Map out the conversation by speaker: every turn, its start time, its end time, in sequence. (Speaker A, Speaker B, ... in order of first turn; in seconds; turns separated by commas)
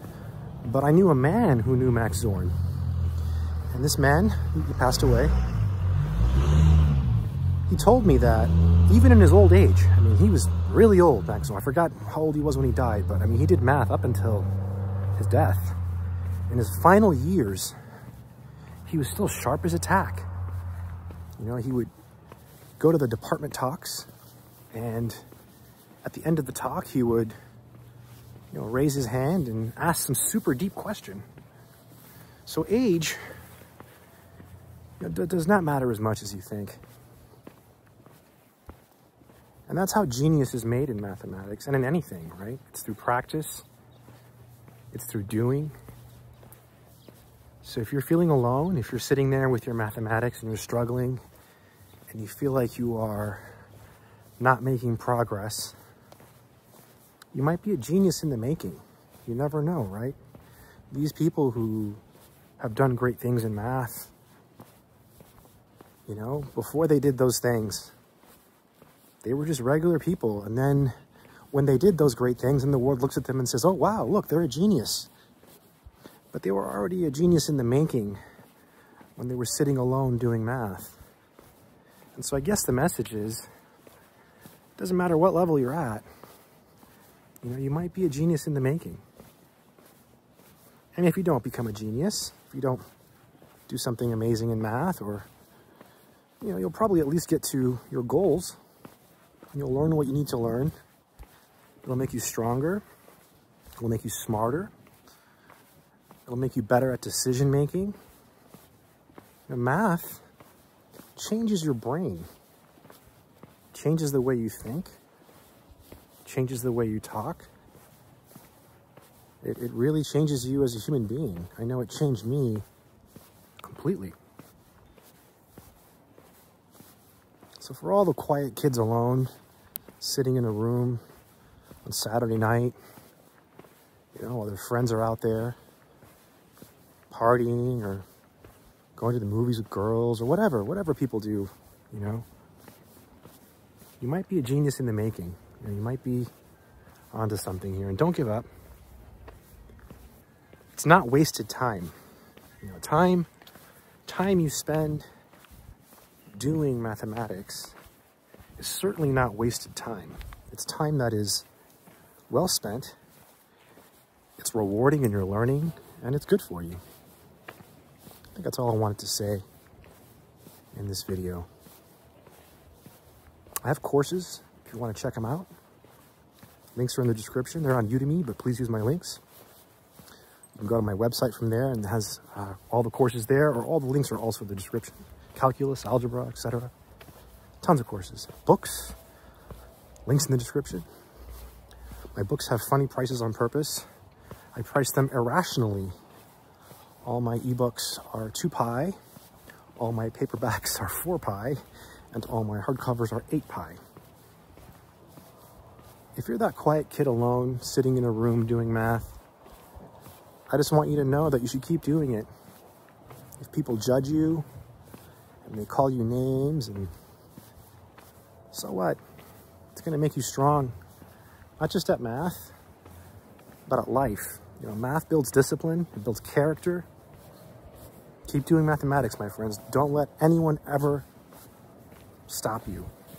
Speaker A: 0.6-2.5, Speaker A: 3.7-5.3, Speaker A: 7.7-14.5, Speaker A: 15.2-15.8, Speaker A: 16.5-17.8, Speaker A: 18.9-20.3, Speaker A: 21.4-21.9, Speaker A: 22.8-24.1, Speaker A: 24.7-25.2, Speaker A: 26.0-27.4, Speaker A: 28.5-31.2, Speaker A: 32.5-33.2, Speaker A: 35.0-36.8, Speaker A: 39.7-43.7, Speaker A: 44.9-45.8, Speaker A: 47.6-51.2, Speaker A: 52.1-53.5, Speaker A: 54.4-55.8, Speaker A: 57.3-60.2, Speaker A: 60.9-62.0, Speaker A: 62.6-64.1, Speaker A: 66.1-67.9, Speaker A: 69.2-70.9, Speaker A: 71.5-75.1, Speaker A: 76.3-78.2, Speaker A: 79.2-81.0, Speaker A: 82.2-83.5, Speaker A: 84.8-86.1, Speaker A: 87.4-89.0, Speaker A: 91.0-92.8, Speaker A: 93.7-95.3, Speaker A: 96.4-98.6, Speaker A: 99.5-100.8, Speaker A: 101.8-102.8, Speaker A: 103.8-104.7, Speaker A: 106.3-108.0, Speaker A: 109.5-110.2, Speaker A: 111.2-112.3, Speaker A: 113.7-115.0, Speaker A: 116.2-117.5, Speaker A: 119.4-122.7, Speaker A: 123.6-124.2, Speaker A: 127.6-129.3, Speaker A: 130.0-131.0, Speaker A: 131.8-132.8, Speaker A: 134.1-135.6, Speaker A: 137.1-138.1, Speaker A: 139.0-142.2, Speaker A: 144.0-146.3, Speaker A: 147.1-148.5, Speaker A: 150.7-151.9, Speaker A: 152.6-153.3, Speaker A: 154.1-155.1, Speaker A: 156.3-157.8, Speaker A: 158.6-161.4, Speaker A: 162.3-162.9, Speaker A: 164.4-166.8, Speaker A: 168.3-169.4, Speaker A: 170.7-171.5, Speaker A: 173.6-175.5, Speaker A: 176.8-179.2, Speaker A: 180.6-186.7, Speaker A: 187.6-189.0, Speaker A: 190.1-190.9, Speaker A: 192.2-193.9, Speaker A: 194.5-195.9, Speaker A: 197.0-199.0, Speaker A: 199.8-201.6, Speaker A: 202.1-203.8, Speaker A: 206.2-209.2, Speaker A: 210.5-212.3, Speaker A: 213.4-214.5, Speaker A: 215.4-216.9, Speaker A: 218.5-219.0, Speaker A: 219.7-220.8, Speaker A: 221.6-222.6, Speaker A: 223.7-226.9, Speaker A: 228.3-231.1, Speaker A: 232.3-232.9